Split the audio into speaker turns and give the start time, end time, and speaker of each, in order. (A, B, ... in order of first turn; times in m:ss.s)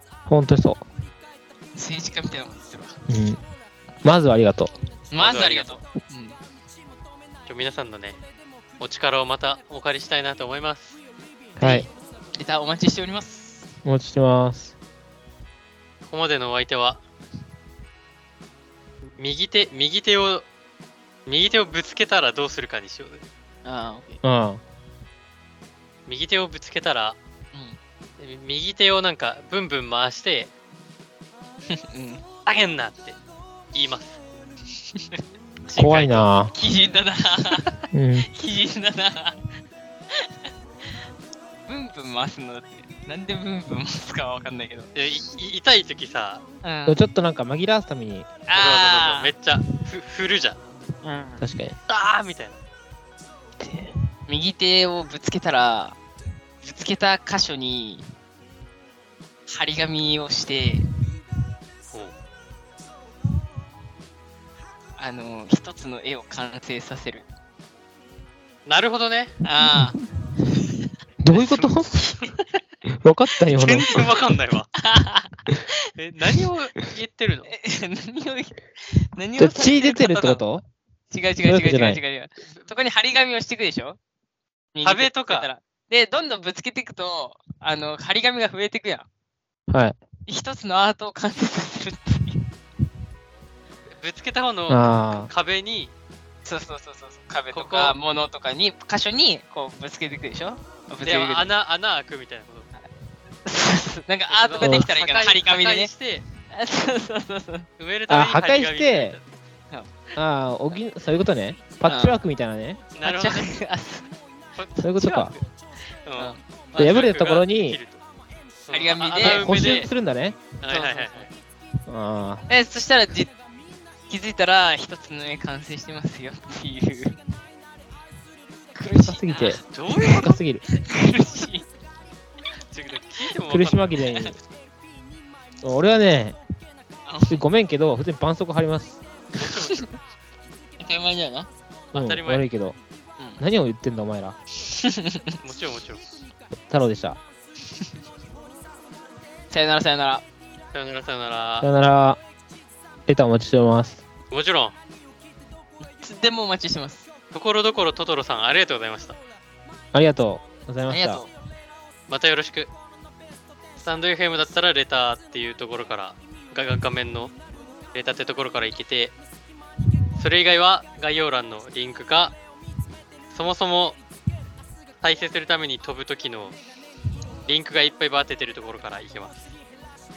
0:00.3-0:00.8 A
0:01.8-0:03.0 B
0:03.1-0:03.4 A
0:04.0-0:04.7 A
0:05.1-0:06.4 B
0:05.2-0:05.8 C
0:07.5-0:08.2 C
0:08.8-0:11.0 C
0:11.6-0:13.7 B
0:11.6-0:11.9 A
0:13.8-0:14.7 A
0:16.0-0:17.0 C
0:19.2-0:20.5 C
0:21.3-0:23.2 C
0:23.6-0:24.2 B
0:24.2-0:24.6 A
0:26.1-0:27.2 C
0:27.5-0:27.8 B
0:28.2-0:30.5 C
0:31.7-0:32.2 B
0:32.5-0:33.2 C
0:33.7-0:34.2 C
0:34.9-0:35.2 B
0:35.7-0:36.3 C
0:35.8-0:36.5 A
0:36.5-0:37.8 B
0:37.9-0:38.3 A
0:38.3-0:39.4 B
0:40.1-0:40.5 B
0:41.7-0:44.9 B
0:45.0-0:46.4 C
0:46.6-0:47.0 B
0:46.9-0:48.3 A
0:48.5-0:49.3 B
0:48.5-0:50.6 C
0:51.0-0:51.5 B
0:51.4-0:51.8 A
0:51.9-0:52.6 C
0:53.6-0:53.9 A
0:54.3-0:56.0 B
0:56.6-0:58.0 B
0:59.5-1:00.8 B
1:05.0-1:07.3 B
1:08.7-1:09.4 C
1:09.4-1:10.0 B
1:09.6-1:09.9 A
1:11.2-1:12.1 A
1:11.3-1:12.3 B
1:12.9-1:14.0 A
1:13.5-1:14.7 C
1:14.8-1:15.4 B
1:16.0-1:17.5 C
1:17.5-1:20.4 B
1:19.4-1:20.7 A
1:21.1-1:24.0 B
1:21.4-1:22.0 A
1:24.7-1:29.1 B
1:24.8-1:25.5 C
1:29.7-1:30.0 A
1:30.3-1:32.4 B
1:34.0-1:35.9 C
1:34.7-1:35.3 A
1:36.4-1:41.5 B
1:37.5-1:38.0 C
1:41.0-1:42.7 C
1:43.4-1:45.9 B
1:44.3-1:46.2 C
1:44.6-1:44.9 A
1:46.5-1:47.7 B
1:47.8-1:49.2 C
1:48.1-1:49.2 A
1:49.7-1:50.1 B
1:50.2-1:52.8 A
1:51.8-1:52.2 B
1:53.0-1:53.5 C
1:53.0-1:55.4 B
1:54.8-1:55.3 A
1:56.0-1:58.0 C
1:56.2-1:56.4 B
1:56.8-1:57.8 A
1:58.7-1:59.9 C
1:58.7-1:59.5 B
1:59.2-2:00.4 A
2:00.6-2:01.3 C
2:00.7-2:01.3 B
2:01.9-2:02.5 A
2:02.5-2:03.3 B
2:04.1-2:07.2 B
2:08.7-2:11.7 B
2:09.0-2:10.6 A
2:09.7-2:10.3 C
2:12.7-2:14.2 C
2:13.5-2:14.4 A
2:15.6-2:16.4 A
2:17.1-2:17.4 B
2:17.3-2:19.0 A
2:19.4-2:19.8 C
2:19.4-2:19.8 B
2:20.8-2:21.5 B
2:21.9-2:22.4 C
2:21.9-2:22.8 A
2:23.4-2:24.4 A
2:24.6-2:25.4 B
2:25.4-2:26.1 C
2:26.7-2:27.2 A
2:29.5-2:30.2 B
2:30.7-2:31.7 C
2:31.6-2:32.2 A
2:33.1-2:34.0 A
2:34.3-2:34.8 C
2:35.8-2:37.1 B
2:37.3-2:39.2 C
2:39.9-2:41.3 A
2:40.9-2:41.3 B
2:42.1-2:42.7 C
2:43.8-2:47.3 C
2:47.9-2:49.2 C
2:50.2-2:52.4 C
2:53.3-2:54.0 C
2:55.0-2:56.6 C
2:57.4-2:59.5 C